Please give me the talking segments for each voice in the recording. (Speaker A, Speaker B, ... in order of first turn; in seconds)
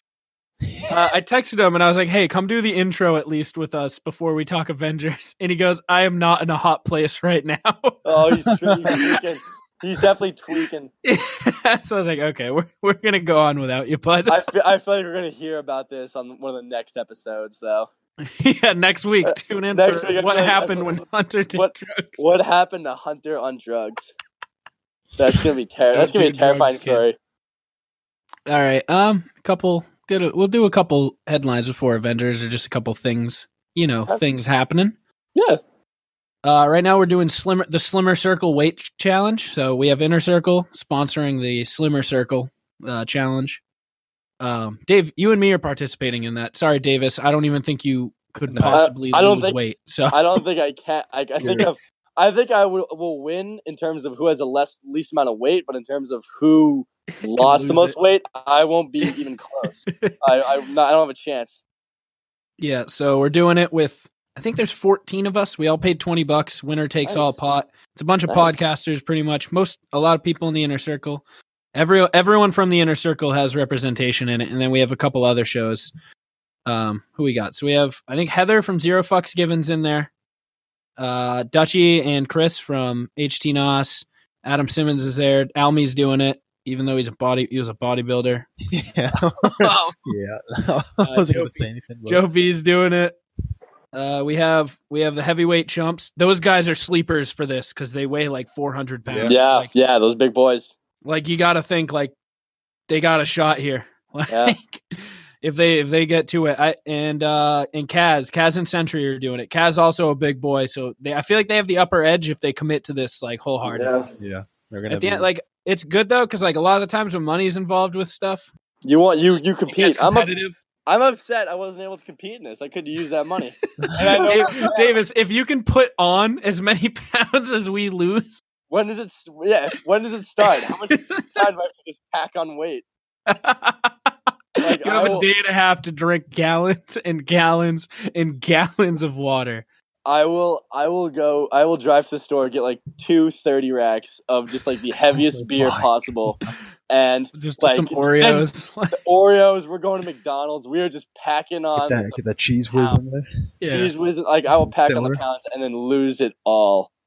Speaker A: 0.6-1.1, 48.5-48.8, 51.4-51.7, 88.7-92.2, 99.0-99.4, 114.2-115.3, 123.8-124.7, 145.1-146.5, 151.8-153.5, 154.5-155.2
Speaker B: 0.9-9.1, 11.0-14.4, 18.2-22.2, 25.9-27.0, 28.5-35.0, 36.4-43.6, 44.4-50.4, 57.2-58.0, 62.6-75.9, 76.6-80.1, 81.0-88.5, 89.4-90.0, 91.0-93.2, 93.9-99.7, 101.0-102.1, 102.9-113.9, 114.9-118.5, 119.7-120.6, 123.8-128.4, 130.4-131.4, 133.3-139.6, 147.3-148.9, 152.7-153.0, 153.6-153.9
Speaker C: 8.0-10.9, 14.3-17.9, 19.2-21.0, 21.5-24.1, 25.2-27.1, 35.3-35.6, 48.7-49.6, 50.1-61.6, 67.0-67.4, 68.3-68.6, 99.2-100.7, 104.3-104.5, 113.6-114.1, 118.8-120.3, 120.8-125.0, 128.7-132.8, 134.6-135.3, 140.0-152.2, 153.6-156.9